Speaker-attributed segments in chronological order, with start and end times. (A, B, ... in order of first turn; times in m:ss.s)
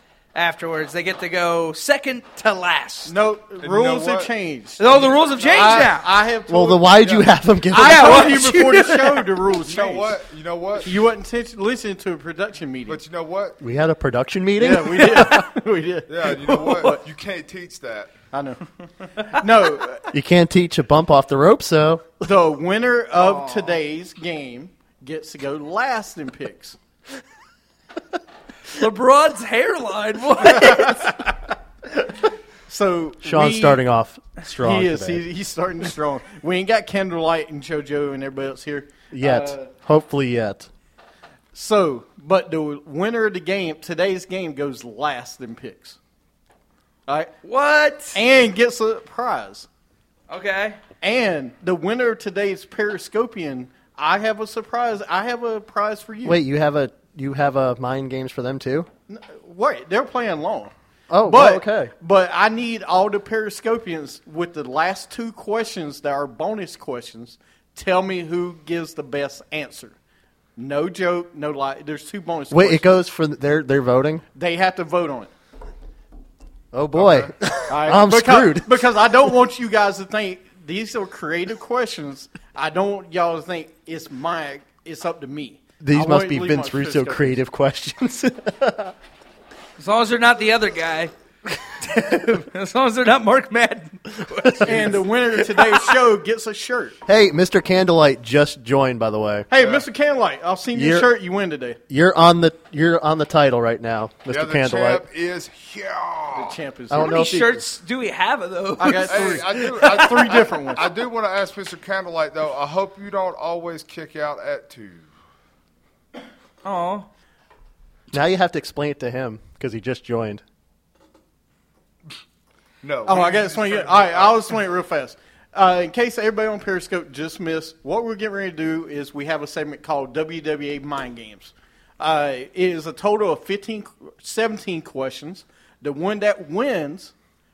0:00.3-0:03.1 A
0:03.1-0:04.9 B
0:03.6-0:04.3 C
0:04.8-0:06.1 A
0:04.8-0:05.9 C
0:05.5-0:06.9 B
0:06.5-0:08.4 D
0:07.0-0:07.3 C
0:07.7-0:10.2 B
0:07.7-0:09.3 A
0:09.7-0:11.0 C
0:10.8-0:13.0 B
0:12.9-0:13.6 C
0:13.6-0:15.5 D
0:14.6-0:17.0 B
0:16.1-0:18.1 C
0:18.3-0:20.1 B
0:20.1-0:22.2 D
0:22.2-0:26.8 B
0:23.1-0:23.8 A
0:28.7-0:31.2 A
0:30.5-0:31.3 B
0:32.7-0:33.8 B
0:33.2-0:35.3 D
0:34.6-0:39.7 B
0:39.1-0:40.7 D
0:41.5-0:46.0 B
0:47.1-0:47.3 B
0:47.4-0:48.2 A
0:48.1-0:49.7 B
0:50.3-0:50.8 A
0:51.0-0:56.4 B
0:56.2-0:58.9 D
0:59.1-1:00.7 B
1:01.1-1:01.9 D
1:01.2-1:10.0 B
1:10.6-1:13.0 B
1:12.5-1:14.2 D
1:14.4-1:15.3 B
1:16.7-1:18.9 D
1:16.9-1:17.3 C
1:17.7-1:27.4 B
1:25.8-1:28.9 D
1:29.8-1:31.1 A
1:31.8-1:35.9 A
1:34.5-1:34.9 D
1:34.6-1:37.0 B
1:37.1-1:39.5 D
1:39.5-1:41.8 B
1:39.6-1:39.8 C
1:40.7-1:41.1 D
1:41.9-1:45.0 D
1:44.3-1:46.6 C
1:46.3-1:47.5 B
1:46.9-1:47.6 D
1:46.9-1:50.2 A
1:48.8-1:50.9 B
1:49.0-1:55.1 C
1:56.6-1:57.1 A
1:58.1-2:00.4 D
2:02.8-2:04.6 C
2:03.0-2:17.1 B